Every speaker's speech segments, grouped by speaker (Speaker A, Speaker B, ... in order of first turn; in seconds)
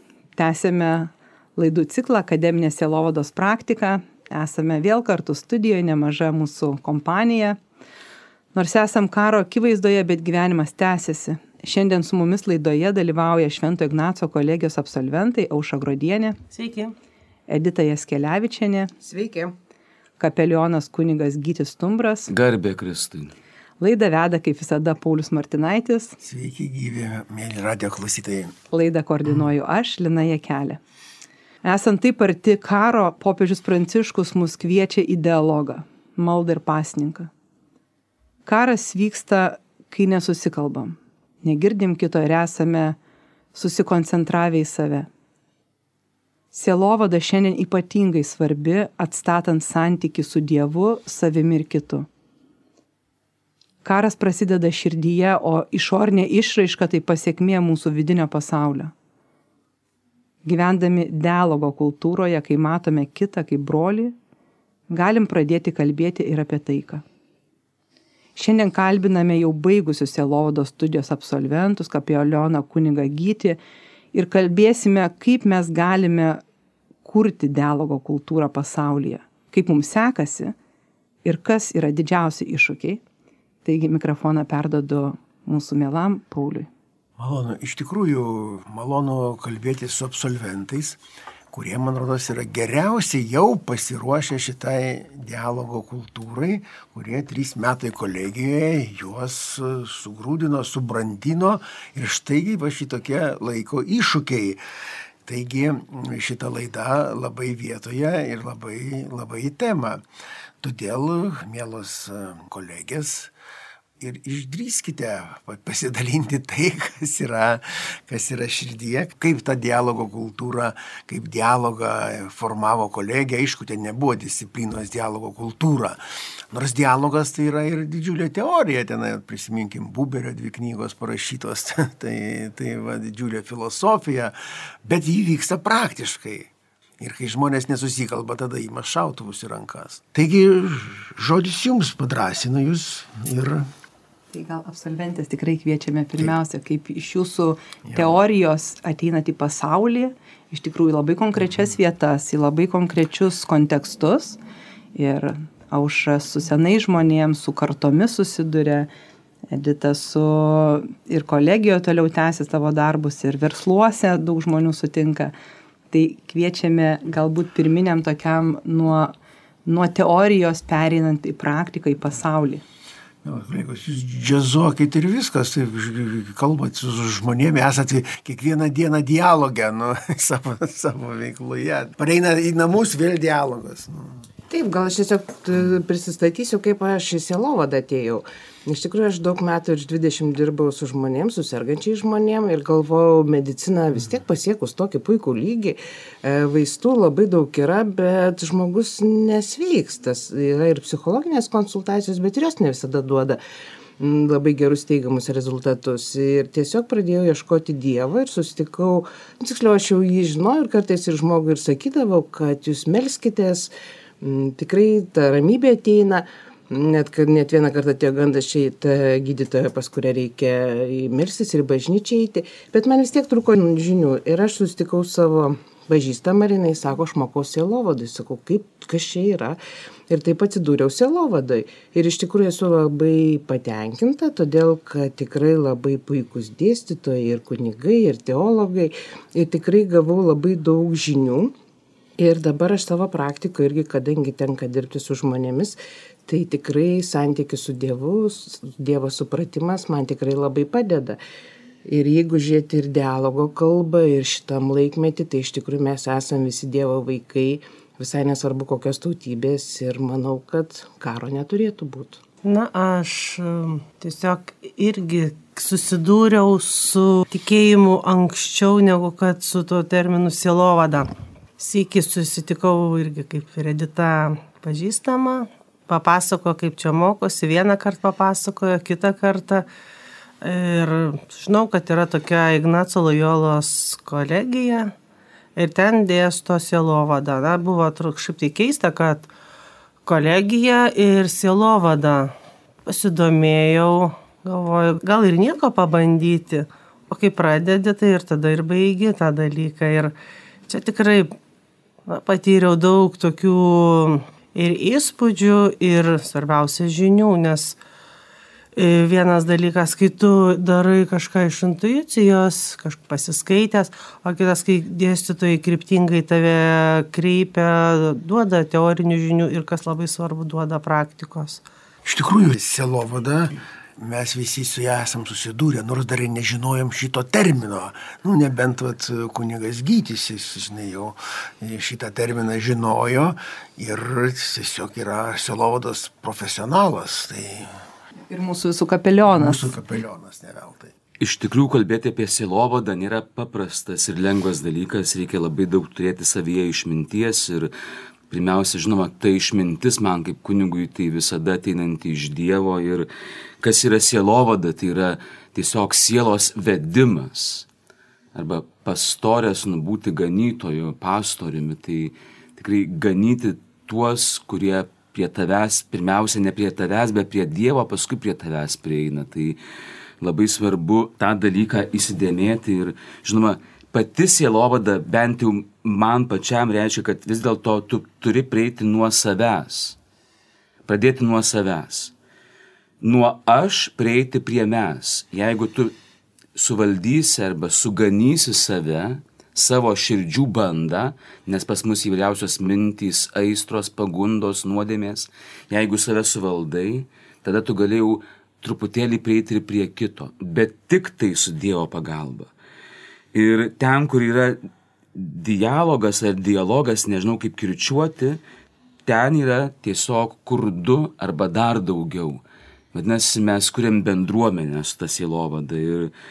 Speaker A: 0.4-7.6, 8.5-16.4, 17.5-18.9, 20.2-22.3, 23.8-26.2, 28.7-30.8, 31.6-37.3, 38.5-43.0, 43.5-45.1, 46.5-52.1, 53.9-58.9, 60.5-64.2, 64.9-67.0, 68.4-73.6, 74.1-76.4, 77.0-80.5, 81.2-83.0, 83.7-86.7, 144.3-154.4, 154.9-158.9, 159.5-165.3, 165.9-169.1, 169.7-172.6, 338.3-339.7
Speaker B: 16.5-16.9, 262.4-279.7, 280.4-284.9, 285.6-289.3, 290.1-292.3, 292.9-300.1, 300.7-301.3, 302.1-307.8, 308.8-321.6
Speaker C: 19.0-19.6, 184.5-203.4, 204.0-213.7, 214.2-229.6, 230.1-241.5, 242.2-251.2, 251.9-262.2
Speaker D: 22.3-23.3, 341.2-347.7, 348.3-353.1, 353.6-357.7, 358.4-369.6, 370.2-380.0, 380.9-382.1, 383.0-385.9, 386.6-402.5, 403.3-404.6, 405.1-408.4, 409.1-412.4, 412.9-416.1
Speaker E: 26.2-28.6, 87.2-91.0, 91.5-104.6, 105.2-110.0, 110.6-113.3, 114.0-126.0, 126.5-134.3, 134.8-143.7, 173.2-184.2, 322.1-337.7, 339.3-340.9